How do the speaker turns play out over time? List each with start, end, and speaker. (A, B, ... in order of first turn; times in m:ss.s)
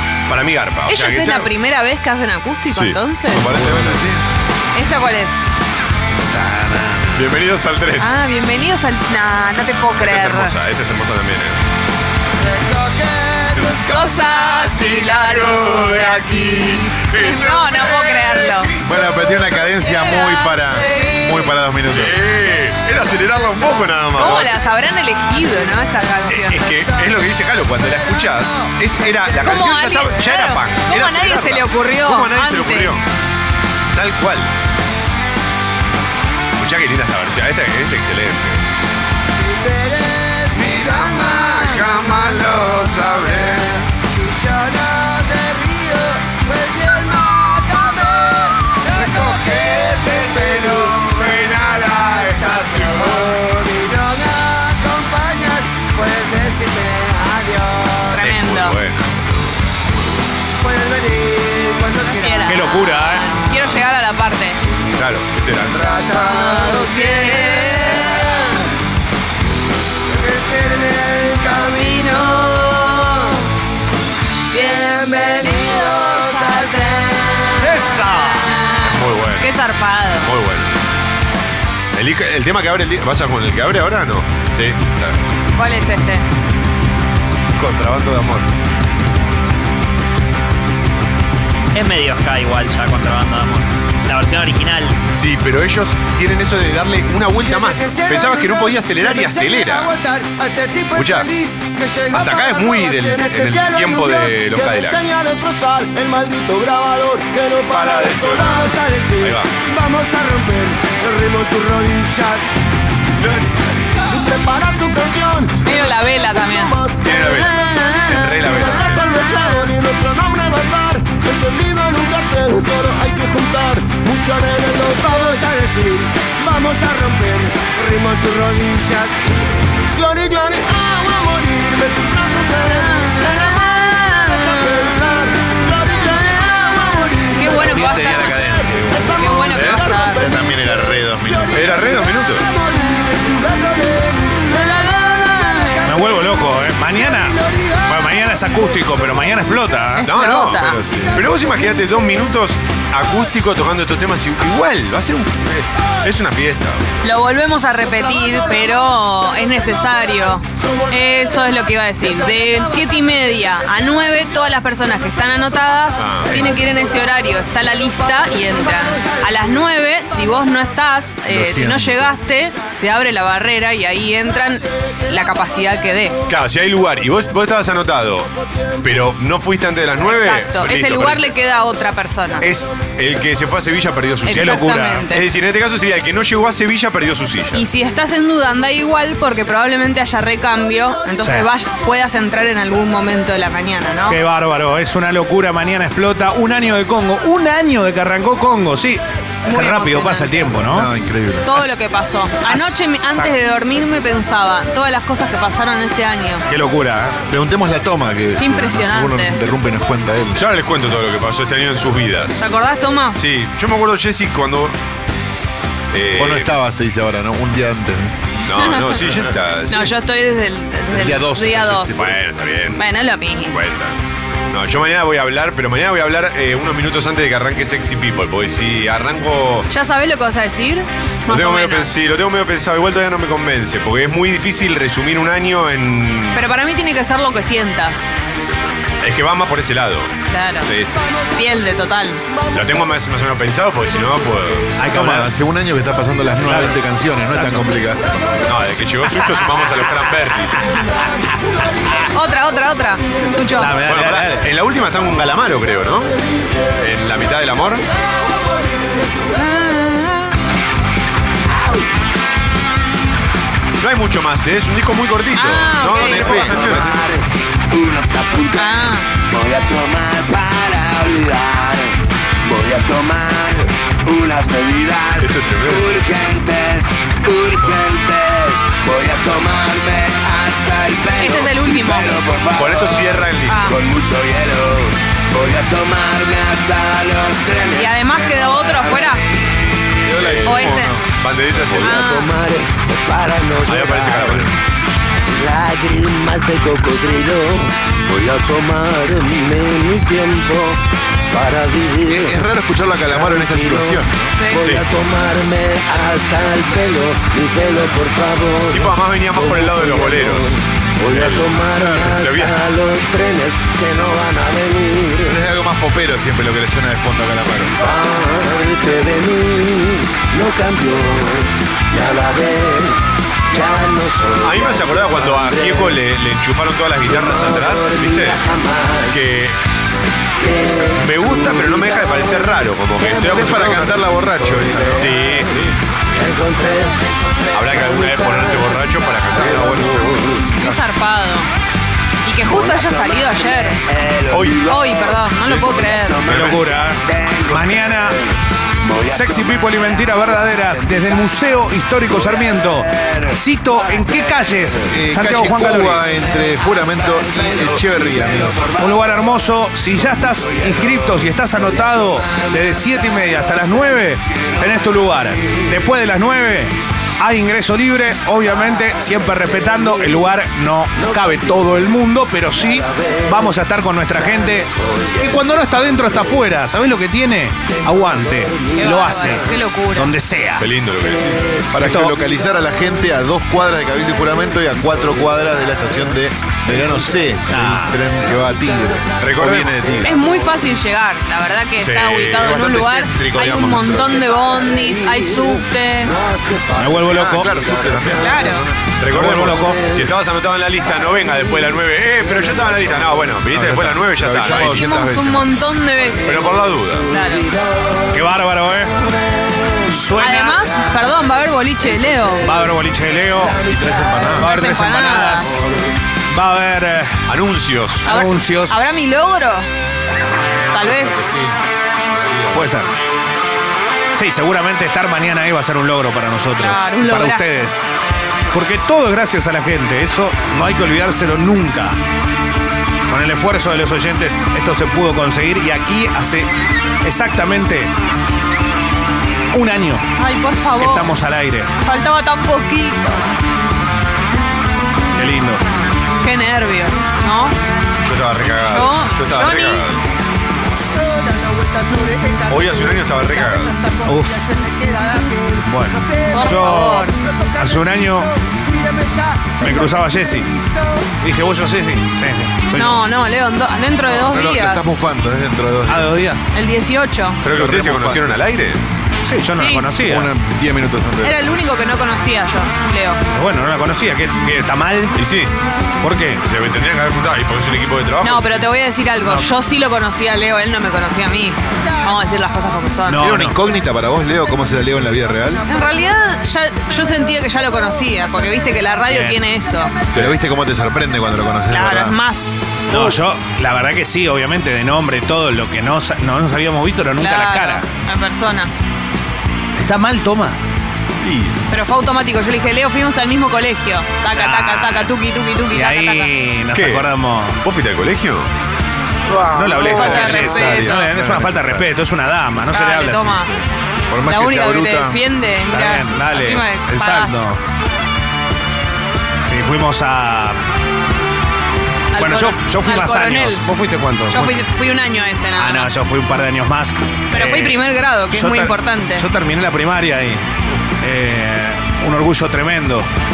0:00.3-0:01.5 A
0:00.9-0:03.5 B
0:02.7-0:04.0 A
0:03.3-0:04.2 C
0:04.7-0:05.4 B
0:06.3-0:07.2 D
0:07.1-0:08.1 A
0:08.0-0:10.5 B
0:09.9-0:11.6 A
0:12.4-0:15.0 E
0:13.8-0:18.7 B
0:14.7-0:18.7 A
0:18.8-0:22.2 C
0:19.9-0:21.4 B
0:21.9-0:24.5 A
0:24.1-0:26.8 B
0:26.3-0:33.0 A
0:28.0-0:29.4 E
0:29.4-0:33.0 B
0:33.9-0:34.5 A
0:36.6-0:38.6 A
0:39.3-0:58.2 E
0:40.6-0:43.6 A
0:50.7-0:53.3 A
0:58.1-0:58.8 B
0:58.2-0:59.5 A
1:00.6-1:02.6 E
1:02.1-1:04.6 B
1:02.4-1:03.3 D
1:04.9-1:06.0 A
1:05.6-1:08.7 E
1:06.2-1:08.4 B
1:10.1-1:13.4 E
1:11.7-1:13.4 B
1:14.5-1:17.8 E
1:15.0-1:17.0 B
1:17.6-1:18.5 D
1:18.3-1:20.3 B
1:18.8-1:19.5 A
1:20.2-1:20.7 A
1:21.9-1:25.2 A
1:25.5-1:26.2 B
1:27.6-1:28.5 A
1:31.7-1:35.0 F
1:35.1-1:39.9 A
1:37.4-1:52.5 E
1:40.9-1:41.3 A
1:42.1-1:45.1 A
1:47.7-1:49.5 A
1:53.2-1:53.6 A
1:53.9-2:09.2 E
1:55.6-1:58.4 B
1:57.0-1:59.0 A
2:09.9-2:28.0 E
2:12.8-2:14.9 B
2:17.4-2:18.4 B
2:17.6-2:19.3 C
2:19.1-2:20.2 B
2:19.5-2:19.8 A
2:20.1-2:21.7 C
2:21.5-2:22.5 A
2:25.8-2:30.1 D
2:30.0-2:30.8 B
2:30.0-2:36.8 A
2:30.4-2:31.2 C
2:37.0-2:56.2 B
2:46.0-2:46.4 A
2:51.3-2:52.2 C
2:56.3-3:01.3 A
3:00.0-3:02.4 B
3:02.4-3:07.6 A
3:04.2-3:05.2 B
3:04.3-3:05.1 D
3:07.5-3:14.2 B
3:11.2-3:11.5 D
3:14.1-3:20.9 D
3:19.4-3:20.5 B
3:20.6-3:21.7 C
3:21.4-3:26.4 B
3:22.5-3:23.3 D
3:26.5-3:27.2 D
3:27.3-3:30.4 C
3:28.4-3:29.4 B
3:30.3-3:32.4 A
3:32.4-3:33.2 B
3:33.1-3:34.8 A
3:35.9-3:36.5 A
3:36.2-3:38.2 C
3:38.4-3:39.9 A
3:39.7-3:42.0 B
3:40.9-3:42.2 C
3:42.0-3:42.8 A
3:42.7-3:43.6 B
3:43.5-3:44.0 A
3:44.5-3:49.7 A
3:49.7-3:51.9 B
3:51.3-3:56.4 A
3:56.3-3:58.2 B
3:59.0-4:00.1 A
4:00.3-4:00.7 B
4:00.6-4:01.0 A
4:01.3-4:02.2 B
4:02.5-4:04.7 A
4:04.8-4:05.3 D
4:04.8-4:08.5 C
4:06.4-4:07.6 D
4:08.4-4:10.7 A
4:12.1-4:13.8 B
4:13.5-4:14.5 D
4:13.8-4:16.1 A
4:16.8-4:17.8 A
4:19.3-4:20.4 B
4:23.8-4:27.0 A
4:25.3-4:26.4 B
4:25.9-4:26.8 C
4:26.3-4:49.2 E
4:28.5-4:29.0 B
4:35.2-4:35.9 A
4:41.2-4:42.1 B
4:42.5-4:43.6 A
4:43.5-4:43.8 B
4:47.7-4:49.2 B
4:50.0-4:51.0 C
4:50.2-4:52.0 A
4:50.4-4:50.9 B
4:51.8-4:54.5 E
4:51.8-4:52.3 B
4:53.6-4:54.5 A
4:55.3-5:00.8 E
5:01.3-5:02.4 E
5:02.0-5:04.3 C
5:03.1-5:15.4 E
5:04.3-5:04.6 B
5:04.6-5:04.8 A
5:08.6-5:10.5 A
5:11.1-5:12.6 A
5:15.2-5:17.8 C
5:17.8-5:26.0 E
5:24.4-5:28.4 A
5:27.0-5:29.2 E
5:29.1-5:29.6 A
5:30.4-5:35.3 E
5:30.9-5:34.0 A
5:33.2-5:35.1 C
5:34.9-5:36.2 A
5:36.1-5:38.8 E
5:37.5-5:40.1 A
5:39.3-5:40.6 E
5:40.6-5:41.5 B
5:42.2-5:43.8 B
5:42.4-5:51.3 E
5:44.3-5:44.6 A
5:44.6-5:46.2 B
5:45.4-5:46.6 A
5:46.2-5:48.2 D
5:49.0-5:56.0 D
5:52.1-5:54.8 E
5:54.9-5:58.6 C
5:56.3-5:59.1 E
5:58.8-6:20.7 D
6:00.3-6:01.2 E
6:01.7-6:02.9 E
6:11.0-6:11.5 E
6:12.6-6:13.4 E
6:14.2-6:15.4 E
6:17.8-6:19.4 E
6:18.8-6:20.1 B
6:20.6-6:21.5 A
6:21.4-6:21.7 E
6:21.7-6:30.1 C
6:21.8-6:22.2 D
6:27.5-6:28.0 D
6:29.2-6:29.9 A
6:30.0-6:36.1 B
6:30.0-6:30.4 E
6:31.8-6:32.6 A
6:32.3-6:34.3 C
6:34.2-6:38.6 E
6:36.8-6:37.5 D
6:36.9-6:38.8 C
6:38.2-6:38.6 B
6:39.0-6:44.9 A
6:39.1-6:39.8 D
6:39.5-6:40.1 E
6:42.2-6:43.3 E
6:43.5-6:45.6 C
6:44.5-6:46.3 B
6:46.0-6:47.1 A
6:46.2-6:48.3 E
6:47.1-6:47.5 B
6:48.1-6:49.0 D
6:49.0-6:52.7 E
6:49.9-6:50.7 D
6:50.2-6:52.4 B
6:52.4-6:53.6 D
6:53.3-6:54.4 E
6:53.6-6:54.5 C
6:54.4-6:55.7 D
6:54.4-6:55.6 B
6:56.3-6:57.2 D
6:57.3-6:58.1 A
6:58.0-6:59.7 B
6:58.0-6:58.8 D
7:00.7-7:01.3 B
7:00.7-7:02.7 C
7:02.5-7:02.9 D
7:04.1-7:07.9 D
7:06.6-7:07.6 B
7:08.5-7:12.0 D
7:13.1-7:16.5 D
7:17.0-7:17.9 D
7:19.5-7:20.1 D
7:20.2-7:21.1 B
7:20.8-7:21.7 D
7:21.8-7:23.2 B
7:25.2-7:25.6 D
7:26.2-7:27.6 B
7:28.0-7:30.0 A
7:28.5-7:29.9 B
7:30.8-7:41.0 E
7:32.5-7:33.7 A
7:34.0-7:34.5 D
7:35.6-7:38.3 D
7:36.3-7:37.2 B
7:39.6-7:40.5 D
7:41.2-7:43.0 D
7:42.7-7:44.9 B
7:44.1-7:46.2 C
7:45.9-7:46.4 D
7:46.5-7:47.4 B
7:47.4-7:48.8 A
7:47.5-7:48.2 C
7:49.2-7:50.3 D
7:49.5-7:49.9 B
7:50.0-7:51.6 C
7:51.2-7:53.2 B
7:53.3-7:55.2 D
7:55.2-7:55.5 A
7:56.0-7:56.4 D
7:56.4-7:58.6 A
7:58.2-8:03.2 B
8:03.0-8:03.6 D
8:03.2-8:05.6 C
8:05.7-8:09.9 B
8:09.1-8:09.4 D
8:10.1-8:12.2 C
8:11.7-8:13.2 B
8:12.9-8:17.9 D
8:17.2-8:18.7 B
8:19.8-8:20.6 D
8:21.2-8:21.6 A
8:21.7-8:26.3 B
8:24.3-8:25.1 D
8:25.7-8:27.6 D
8:26.7-8:28.5 A
8:29.5-8:33.6 D
8:29.6-8:31.0 B
8:29.8-8:31.9 C
8:32.7-8:33.5 B
8:34.1-8:35.2 C
8:34.2-8:37.5 B
8:35.7-8:37.6 D
8:39.4-8:40.6 D
8:42.1-8:43.6 B
8:42.2-8:44.6 D
8:44.3-8:45.9 B
8:45.6-8:50.4 D
8:47.3-8:49.3 B
8:51.0-8:53.1 D